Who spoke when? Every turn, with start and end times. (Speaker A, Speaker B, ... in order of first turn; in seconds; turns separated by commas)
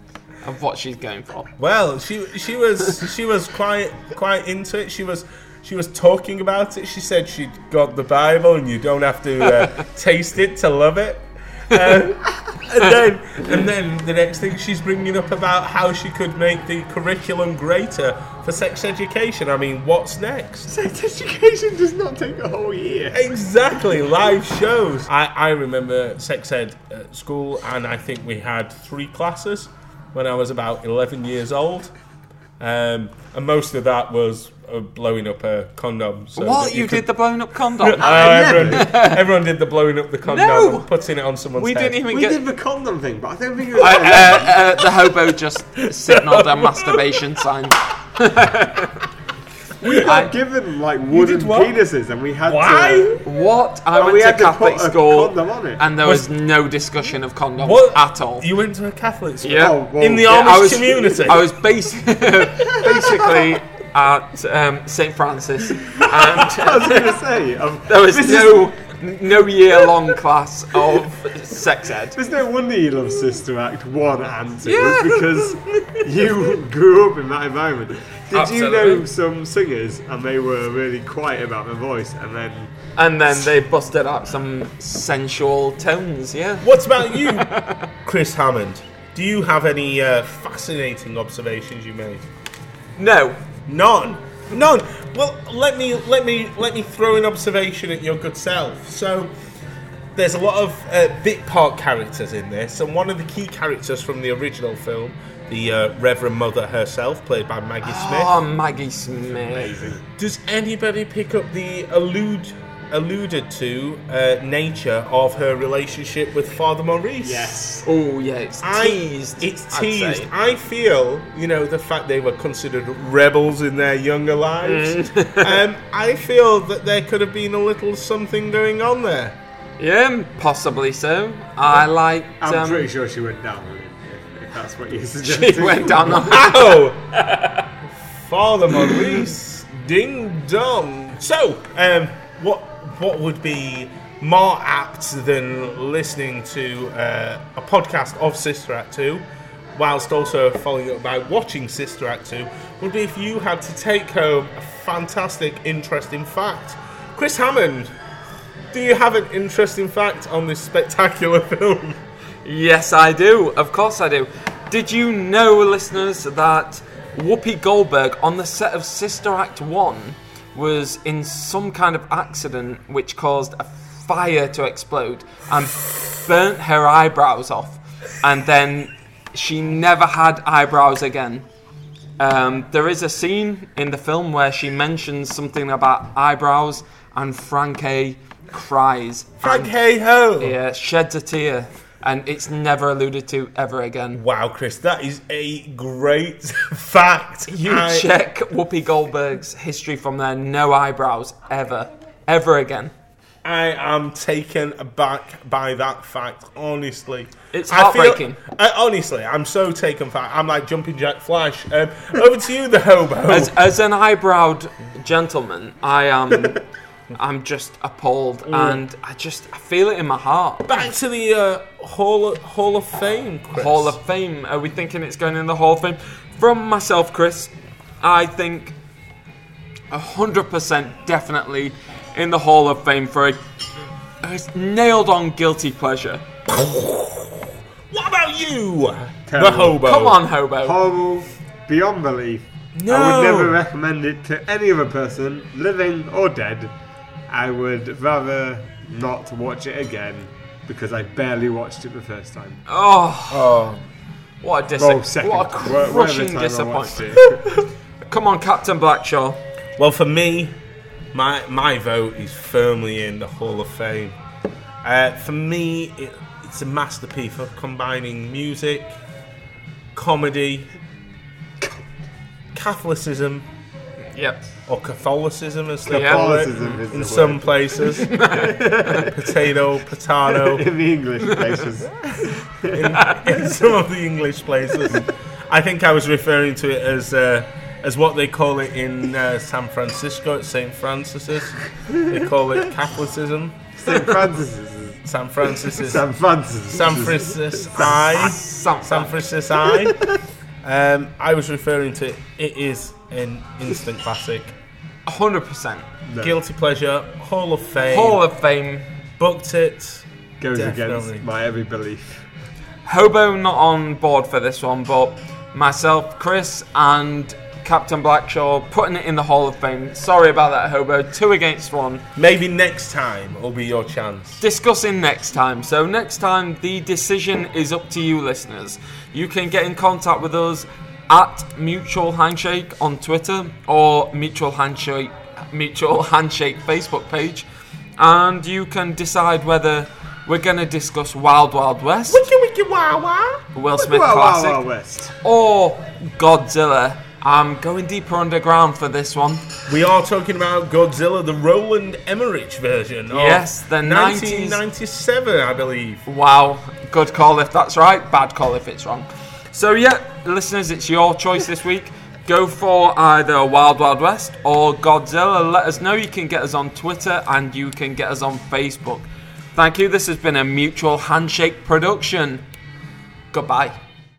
Speaker A: 0.4-1.5, Speaker B: 1.6-20.7, Speaker A: 9.5-9.7, Speaker C: 20.7-23.3, Speaker B: 23.1-31.9, Speaker B: 32.6-37.1, Speaker A: 36.4-39.2, Speaker B: 37.8-42.1, Speaker C: 38.0-38.9, Speaker A: 40.2-40.9, Speaker A: 41.5-42.4, Speaker C: 42.1-44.6, Speaker A: 43.7-49.0, Speaker B: 45.8-47.2, Speaker B: 49.8-50.4, Speaker C: 49.8-53.3, Speaker A: 49.8-50.3, Speaker B: 51.1-51.8, Speaker B: 52.5-53.2, Speaker A: 53.2-58.5, Speaker C: 54.0-55.9, Speaker B: 56.0-56.3, Speaker B: 57.6-61.5, Speaker A: 59.4-67.2, Speaker C: 59.5-60.4, Speaker C: 62.7-63.6, Speaker C: 66.2-68.7, Speaker A: 67.9-72.2, Speaker C: 72.1-82.7, Speaker A: 74.6-76.0, Speaker A: 78.3-79.1, Speaker A: 83.0-87.9, Speaker B: 86.6-92.2, Speaker A: 93.0-93.4, Speaker B: 93.7-99.3, Speaker B: 100.1-108.3, Speaker A: 107.8-109.9, Speaker C: 109.5-110.0, Speaker B: 110.2-117.6, Speaker C: 117.2-117.8, Speaker A: 117.8-120.3, Speaker B: 118.6-129.4, Speaker A: 124.6-125.6, Speaker A: 129.8-132.9, Speaker C: 132.4-136.3, Speaker A: 135.2-137.7, Speaker B: 136.1-137.1, Speaker B: 138.2-149.2, Speaker B: 149.8-157.9, Speaker B: 158.7-162.0, Speaker A: 162.4-181.4, Speaker A: 182.2-189.7, Speaker B: 189.4-190.6, Speaker A: 190.4-194.2, Speaker B: 194.1-198.1, Speaker A: 197.5-202.9, Speaker B: 203.4-213.6, Speaker A: 207.5-208.4, Speaker A: 213.3-216.6, Speaker A: 217.1-220.8, Speaker B: 218.5-218.8, Speaker B: 220.7-224.0, Speaker A: 223.6-228.8, Speaker A: 229.9-233.4, Speaker A: 234.2-236.2, Speaker B: 236.5-240.2, Speaker C: 239.3-239.8, Speaker A: 239.8-240.8, Speaker C: 240.6-246.7, Speaker B: 242.8-243.6, Speaker C: 247.3-252.6, Speaker A: 252.7-253.5, Speaker B: 253.3-253.8, Speaker A: 254.4-257.2, Speaker C: 254.8-257.4, Speaker A: 258.1-259.4, Speaker B: 259.8-260.6, Speaker B: 261.1-264.1, Speaker B: 264.8-269.0, Speaker B: 269.9-270.7, Speaker B: 272.5-273.5, Speaker A: 274.1-274.5, Speaker B: 274.7-278.1, Speaker A: 275.9-276.4, Speaker C: 275.9-279.2, Speaker A: 277.8-279.1, Speaker B: 278.9-280.7, Speaker C: 280.3-282.9, Speaker A: 281.2-281.6, Speaker B: 282.7-294.1, Speaker A: 282.9-283.3, Speaker C: 293.8-295.0, Speaker B: 295.1-296.1, Speaker C: 295.6-298.0, Speaker B: 296.7-300.1, Speaker A: 297.9-299.2, Speaker C: 299.6-300.1, Speaker B: 300.6-304.5, Speaker A: 305.1-305.9, Speaker C: 306.1-306.4, Speaker B: 306.2-308.2, Speaker A: 307.9-308.9, Speaker B: 309.2-311.2, Speaker C: 310.4-312.2, Speaker A: 312.8-322.1, Speaker B: 322.1-324.4, Speaker A: 324.4-342.2, Speaker B: 342.1-343.4, Speaker A: 343.6-344.6, Speaker C: 343.8-345.1, Speaker A: 345.2-349.5, Speaker B: 349.7-356.0, Speaker A: 353.1-354.6, Speaker A: 356.1-372.4, Speaker A: 373.3-373.8